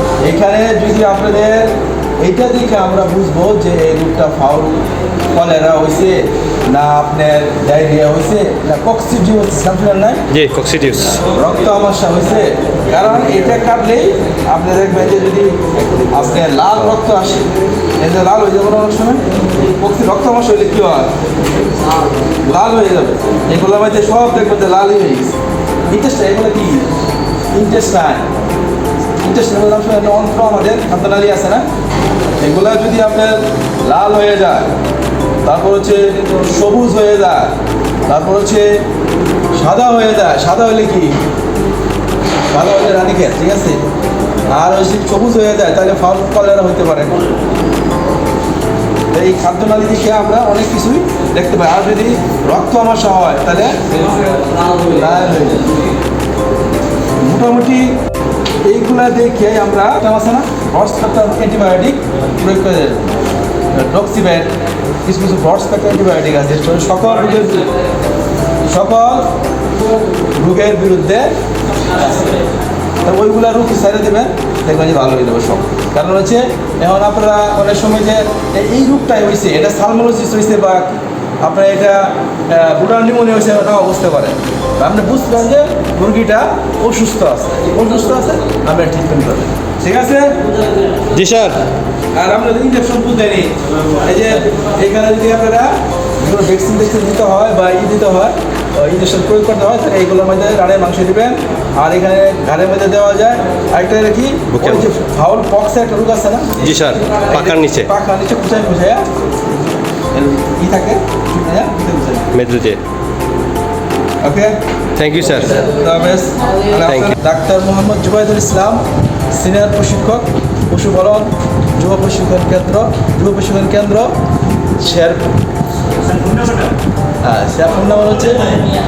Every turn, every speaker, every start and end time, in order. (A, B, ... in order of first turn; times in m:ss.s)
0:00.2-0:10.2 A
0:10.3-0:11.2 B
0:11.3-0:15.6 A
0:16.1-0:17.5 A
0:18.0-0:21.1 A
0:22.4-0:25.3 A
0:25.9-0:26.9 A
0:27.5-0:28.3 A
0:29.2-0:31.6 A
0:32.4-0:34.7 A
0:35.4-0:37.5 A
0:38.1-0:38.7 A
0:39.6-0:41.1 A
0:42.5-0:43.8 A
0:44.5-0:47.2 A
0:49.1-0:53.7 A
0:54.8-0:55.7 A
0:57.2-0:57.9 A
0:58.6-1:03.2 A
1:03.7-1:04.5 A
1:05.0-1:07.6 A
1:08.6-1:09.2 A
1:10.3-1:11.3 A
1:13.0-1:30.4 A
1:31.1-1:31.6 B
1:32.1-1:49.0 A
1:44.5-1:44.8 B
1:46.6-1:47.9 B
1:50.1-1:52.3 A
1:52.3-1:52.8 B
1:54.2-1:54.5 A
1:55.0-1:55.5 B
1:55.2-1:58.8 A
1:56.8-1:57.1 B
1:59.3-2:04.1 A
2:04.8-2:05.2 A
2:07.2-2:08.5 A